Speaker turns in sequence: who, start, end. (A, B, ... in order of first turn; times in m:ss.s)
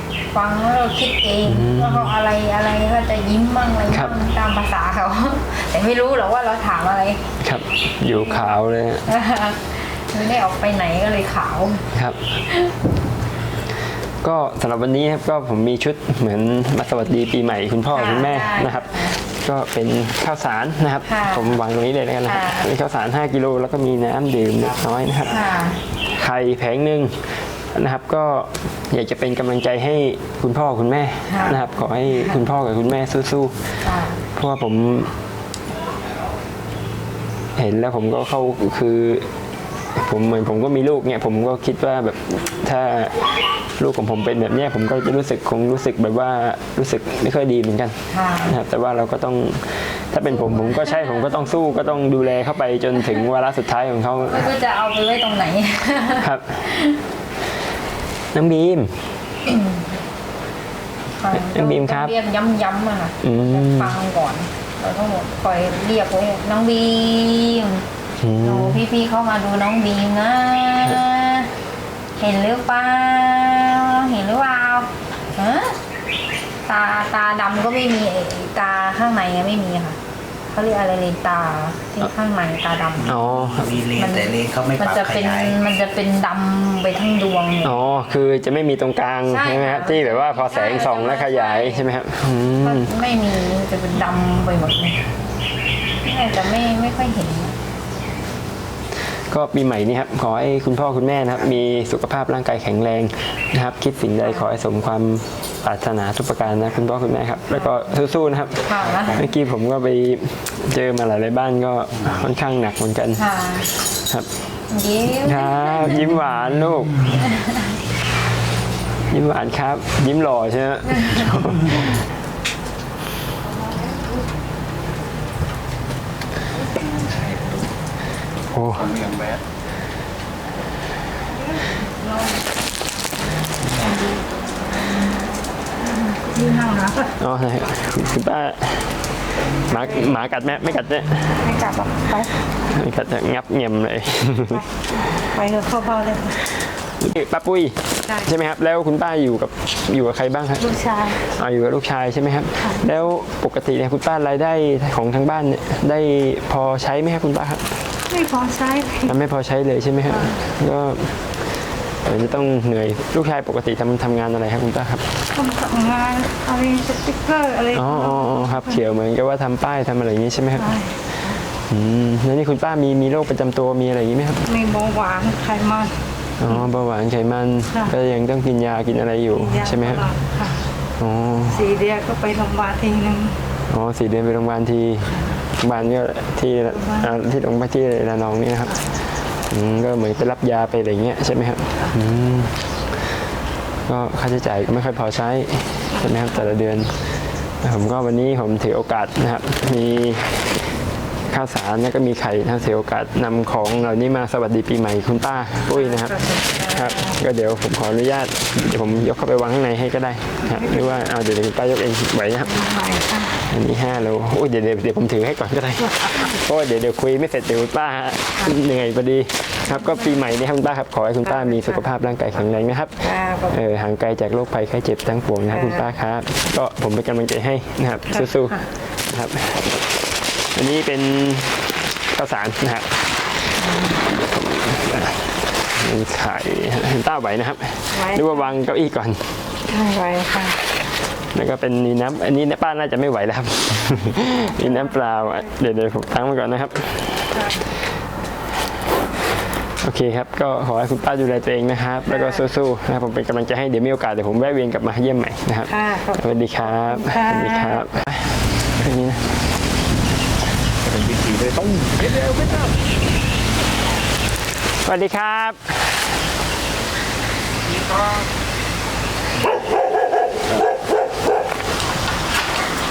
0:00.3-0:07.2 A
0:01.4-0:02.2 B
0:03.9-0:04.2 B
0:07.4-0:09.1 B
0:09.1-0:11.8 A
0:11.9-0:12.4 B
0:14.2-0:35.1 B
0:18.0-0:19.0 A
0:22.3-0:22.6 A
0:25.3-0:25.8 A
0:33.8-0:34.2 A
0:37.6-0:39.3 B
0:39.9-0:54.6 B
0:48.1-0:48.4 A
0:54.3-0:56.1 A
0:56.1-0:56.8 B
0:58.3-0:58.9 B
0:59.5-0:59.8 A
1:01.2-1:07.8 A
1:01.3-1:02.2 B
1:03.2-1:04.0 B
1:08.2-1:08.8 B
1:08.4-1:11.5 A
1:12.2-1:15.8 A
1:16.7-1:20.0 A
1:20.5-1:23.0 A
1:23.0-1:25.6 C
1:23.0-1:23.8 B
1:23.9-1:27.7 A
1:27.6-1:33.1 B
1:29.3-1:31.9 A
1:32.6-1:35.0 A
1:36.0-1:37.5 A
1:39.3-1:53.3 B
1:48.6-1:49.2 A
1:53.2-1:53.7 A
1:53.8-1:54.3 B
1:54.7-1:55.9 A
1:55.2-1:57.2 B
1:59.1-2:02.0 B
2:08.5-2:09.1 B
2:12.0-2:12.4 D
2:13.8-2:14.2 D
2:16.0-2:17.1 D
2:17.2-2:21.5 B
2:21.4-2:22.4 D
2:22.6-2:25.1 B
2:25.2-2:26.4 D
2:27.0-2:37.8 B
2:30.6-2:31.2 D
2:38.1-2:39.1 D
2:39.0-2:41.2 B
2:42.0-2:45.1 B
2:45.3-2:48.7 D
2:47.7-2:50.7 B
2:50.6-2:50.9 D
2:51.7-2:54.5 B
2:54.5-2:56.0 D
2:56.4-3:00.1 B
2:59.3-3:00.6 D
3:01.0-3:01.7 B
3:01.5-3:03.4 D
3:03.7-3:08.9 B
3:09.5-3:12.6 B
3:13.9-3:17.0 B
3:17.6-3:20.6 B
3:21.3-3:49.8 B
3:26.0-3:26.9 D
3:32.7-3:33.0 D
3:50.5-3:53.2 B
3:54.1-3:59.3 B
3:59.7-4:00.6 D
4:01.3-4:07.7 B
4:09.8-4:19.4 B
4:15.7-4:16.2 D
4:16.8-4:17.8 D
4:21.0-4:21.8 C
4:24.8-4:26.1 B